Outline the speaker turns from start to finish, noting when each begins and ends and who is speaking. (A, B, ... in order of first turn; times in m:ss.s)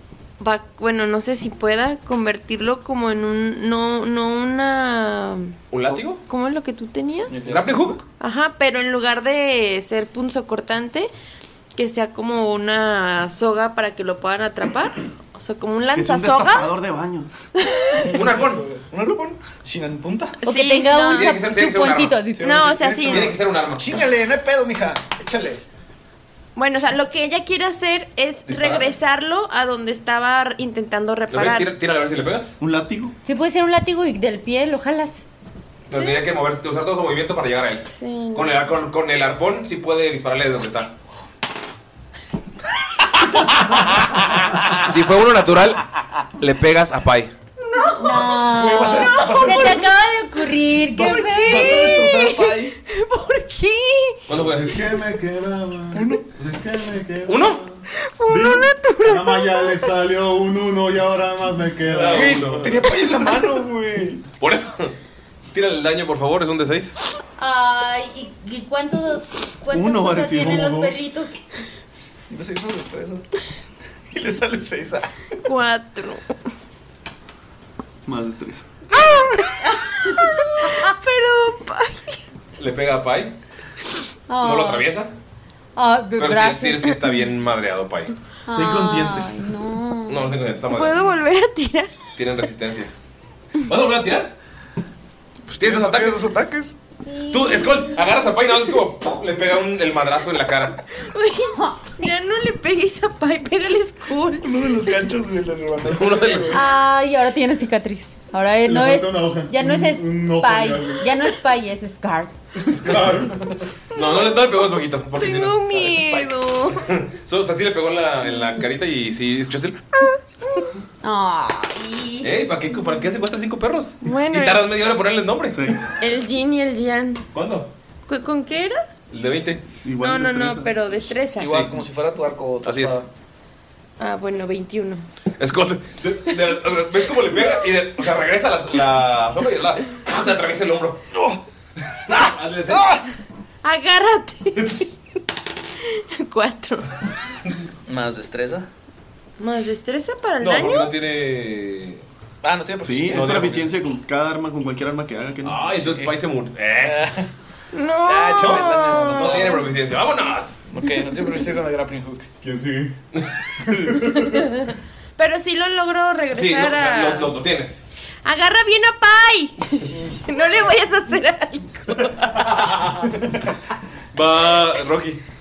0:00.4-0:07.3 A
0:05.7-0:06.2 B
0:07.3-0:08.0 C
0:07.4-0:08.0 B
0:08.2-0:11.1 A
0:11.7-0:16.7 A
0:15.9-0:17.3 D
0:17.6-0:18.1 A
0:18.0-0:20.4 C
0:18.1-0:18.6 B
0:20.4-0:21.5 A
0:20.4-0:22.6 E
0:21.1-0:22.2 B
0:22.4-0:25.6 C
0:22.4-0:23.3 A
0:23.0-0:24.0 B
0:26.6-0:31.7 A
0:28.5-0:28.9 B
0:31.3-0:32.6 B
0:32.6-0:33.1 D
0:33.2-0:35.2 E
0:35.9-0:40.9 B
0:35.9-0:36.2 A
0:37.9-0:38.6 A
0:44.8-0:45.8 B
0:46.4-0:47.3 B
0:47.8-0:48.1 A
0:47.9-0:52.0 E
0:48.1-0:49.9 C
0:48.7-0:50.0 A
0:50.9-0:52.7 C
0:51.0-0:54.2 A
0:54.3-0:54.7 B
0:54.3-0:57.8 F
0:55.9-0:56.2 C
0:57.3-0:57.6 B
0:58.0-0:59.9 A
0:58.3-0:58.7 D
0:59.0-1:02.7 F
1:01.8-1:02.8 B
1:02.1-1:04.2 C
1:04.4-1:04.9 B
1:05.5-1:07.0 B
1:07.4-1:11.4 E
1:09.7-1:10.8 D
1:10.3-1:11.0 F
1:12.3-1:13.2 C
1:14.1-1:15.1 C
1:15.4-1:16.2 A
1:18.0-1:18.7 D
1:18.9-1:22.2 A
1:22.6-1:23.3 B
1:24.3-1:24.9 E
1:24.4-1:25.1 B
1:25.8-1:27.0 E
1:26.2-1:28.1 B
1:28.5-1:30.3 E
1:28.5-1:29.3 D
1:30.1-1:31.0 B
1:30.7-1:31.9 A
1:32.2-1:32.9 B
1:33.6-1:34.3 B
1:35.5-1:36.2 B
1:35.6-1:36.7 C
1:37.1-1:38.0 E
1:37.3-1:40.8 B
1:41.0-1:44.8 A
1:41.5-1:41.8 E
1:44.4-1:46.7 C
1:45.8-1:46.5 B
1:46.5-1:52.3 E
1:48.6-1:51.0 F
1:52.6-1:53.5 F
1:53.9-1:56.9 A
1:53.9-1:55.6 B
1:55.7-1:56.3 C
1:56.8-1:59.8 B
2:00.0-2:00.7 A
2:01.0-2:02.3 E
2:02.2-2:05.8 B
2:04.0-2:04.7 A
2:05.5-2:05.9 D
2:06.0-2:07.2 A
2:07.3-2:07.7 B
2:08.0-2:08.8 A
2:09.1-2:09.6 B
2:09.8-2:10.8 D
2:10.0-2:11.6 A
2:11.4-2:13.0 C
2:11.5-2:11.7 B
2:12.6-2:13.0 B
2:14.0-2:15.0 A
2:15.4-2:21.0 B
2:21.1-2:21.4 C
2:22.1-2:22.9 B
2:22.1-2:23.0 C
2:23.6-2:24.9 A
2:25.8-2:27.0 A
2:27.8-2:28.7 C
2:29.4-2:31.0 A
2:30.4-2:32.0 B
2:32.4-2:33.6 C
2:32.8-2:35.8 D
2:33.0-2:33.7 B
2:35.4-2:37.1 B
2:35.8-2:36.1 C
2:36.8-2:37.3 C
2:37.7-2:39.5 A
2:38.0-2:39.7 C
2:38.4-2:40.6 B
2:40.7-2:42.3 C
2:42.4-2:43.0 F
2:43.1-2:43.9 B
2:43.6-2:44.4 F
2:45.2-2:47.3 A
2:46.3-2:47.8 B
2:48.2-2:52.3 A
2:52.0-2:53.1 B
2:54.1-2:55.2 B